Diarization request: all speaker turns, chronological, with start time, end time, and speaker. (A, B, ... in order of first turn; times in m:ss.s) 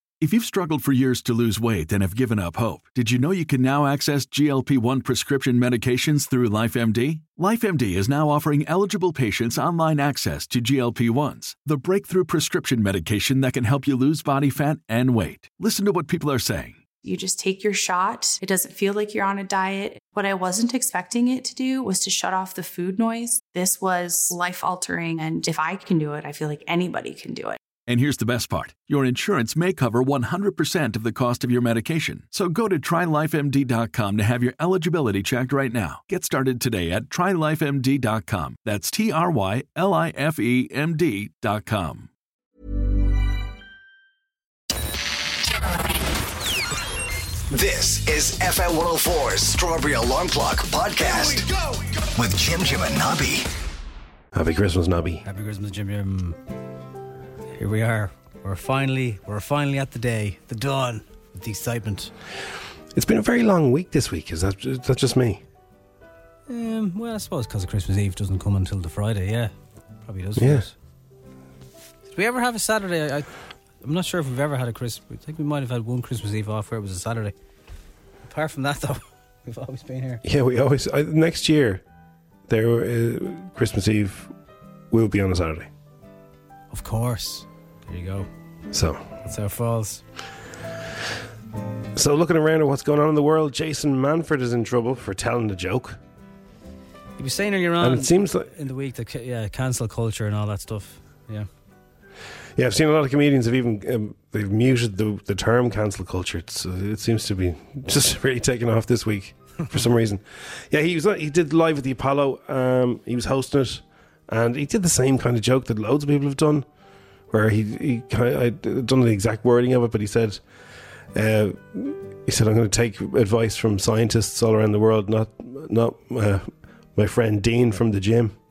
0:00.2-0:16.8 A
0:17.0-0:27.6 B
0:27.8-0:42.1 A
0:47.5-0:51.5 C
0:52.1-0:53.5 C
0:54.3-0:55.2 D
0:55.2-0:56.4 E
0:57.6-1:02.1 E
1:02.9-1:05.4 D
1:06.5-1:09.5 E
1:10.0-1:10.7 E
1:10.4-1:10.7 D
1:12.1-1:13.3 E
1:13.8-1:17.4 E
1:18.2-1:20.2 E
1:20.2-1:21.8 D
1:22.5-1:24.3 D
1:24.9-1:25.7 D
1:26.7-1:28.3 E
1:28.7-1:29.1 D
1:29.2-1:30.0 E
1:31.9-1:36.0 D
1:37.2-1:41.5 E
1:37.8-1:38.5 D
1:42.6-1:56.6 D
1:57.3-2:00.4 D
2:01.1-2:08.4 D